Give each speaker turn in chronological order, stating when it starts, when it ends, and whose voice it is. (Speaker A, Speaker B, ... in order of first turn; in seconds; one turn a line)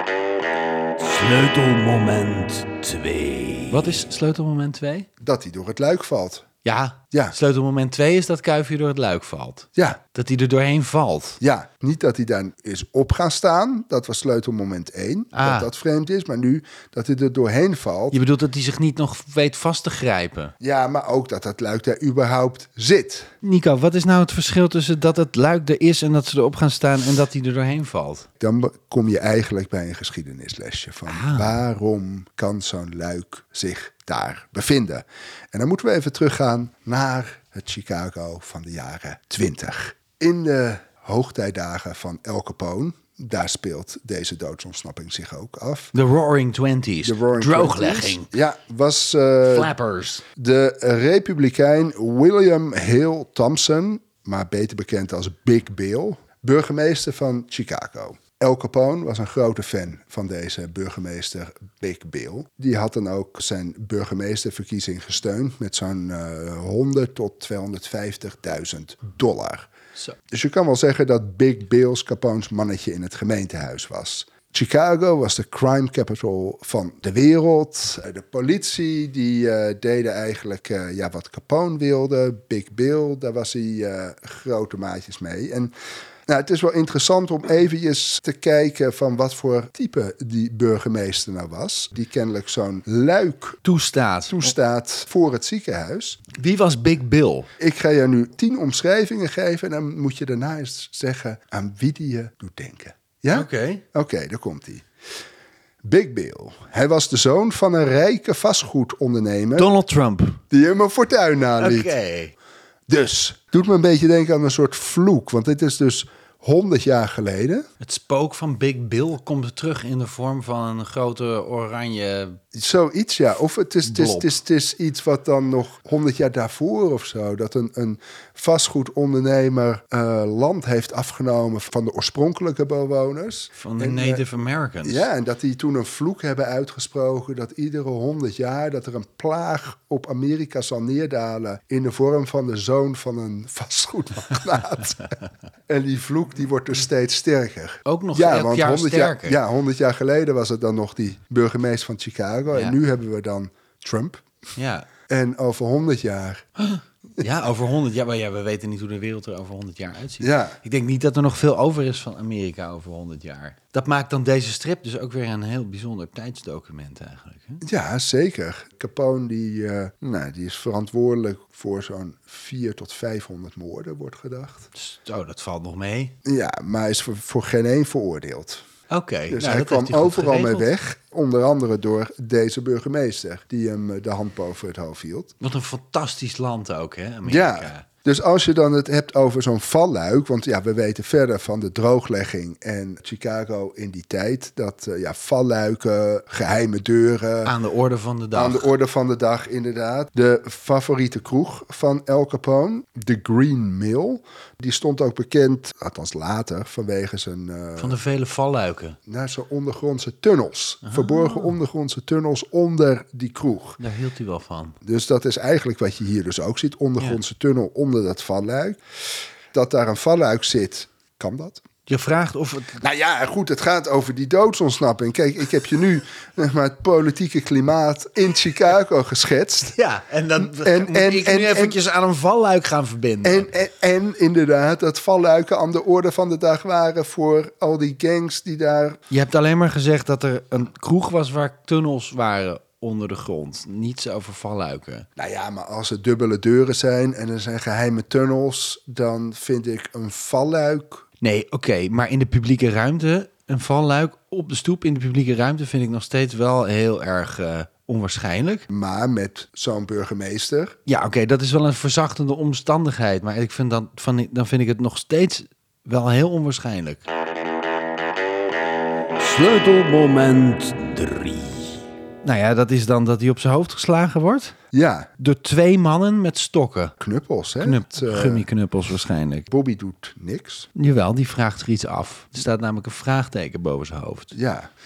Speaker A: 1.0-3.8
Speaker B: 3.7-5.1
Speaker C: 5.2-6.5
Speaker B: 6.6-11.4
Speaker C: 11.4-18.2
Speaker B: 15.3-15.7
Speaker B: 18.1-20.5
Speaker C: 20.6-23.3
Speaker B: 23.4-28.3
Speaker C: 28.4-45.9
Speaker B: 31.1-31.6
Speaker B: 45.9-48.3
Speaker C: 47.0-49.7
Speaker B: 49.4-50.2
Speaker C: 50.4-69.7
Speaker C: 70.3-85.7
Speaker C: 86.3-93.6
Speaker B: 93.7-94.5
Speaker C: 94.3-96.2
Speaker B: 96.3-97.5
Speaker C: 97.6-104.8
Speaker B: 103.3-103.8
Speaker C: 105.8-109.7
Speaker B: 109.6-110.4
Speaker C: 110.5-111.9
Speaker B: 111.6-112.3
Speaker C: 112.9-117.7
Speaker B: 117.8-122.4
Speaker C: 122.5-134.2
Speaker B: 123.8-124.4
Speaker B: 133.6-135.1
Speaker C: 134.8-145.2
Speaker C: 145.7-154.2
Speaker B: 147.9-149.4
Speaker B: 152.5-152.8
Speaker B: 154.6-154.9
Speaker C: 155.1-156.4
Speaker B: 156.6-167.6
Speaker C: 160.2-160.6
Speaker C: 167.6-174.7
Speaker B: 174.8-176.2
Speaker C: 176.2-178.6
Speaker B: 178.9-180.7
Speaker C: 179.3-185.3
Speaker B: 185.4-187.9
Speaker C: 187.2-197.5
Speaker B: 197.4-198.7
Speaker C: 198.3-208.0
Speaker B: 207.8-209.0
Speaker C: 209.1-213.8
Speaker B: 210.9-211.5
Speaker B: 213.8-214.8
Speaker C: 214.8-218.8
Speaker C: 219.5-221.6
Speaker B: 221.9-222.8
Speaker C: 222.8-229.8
Speaker B: 229.7-233.5
Speaker C: 230.4-231.8
Speaker C: 233.2-239.0
Speaker B: 239.1-245.1
Speaker C: 245.2-251.1
Speaker B: 251.2-258.7
Speaker C: 258.7-260.8
Speaker B: 260.9-267.0
Speaker A: 269.2-271.8
Speaker B: 272.2-274.6
Speaker C: 274.7-275.1
Speaker B: 275.2-276.9
Speaker C: 277.0-278.5
Speaker B: 277.6-279.5
Speaker C: 279.5-280.7
Speaker B: 280.8-284.4
Speaker C: 284.3-284.7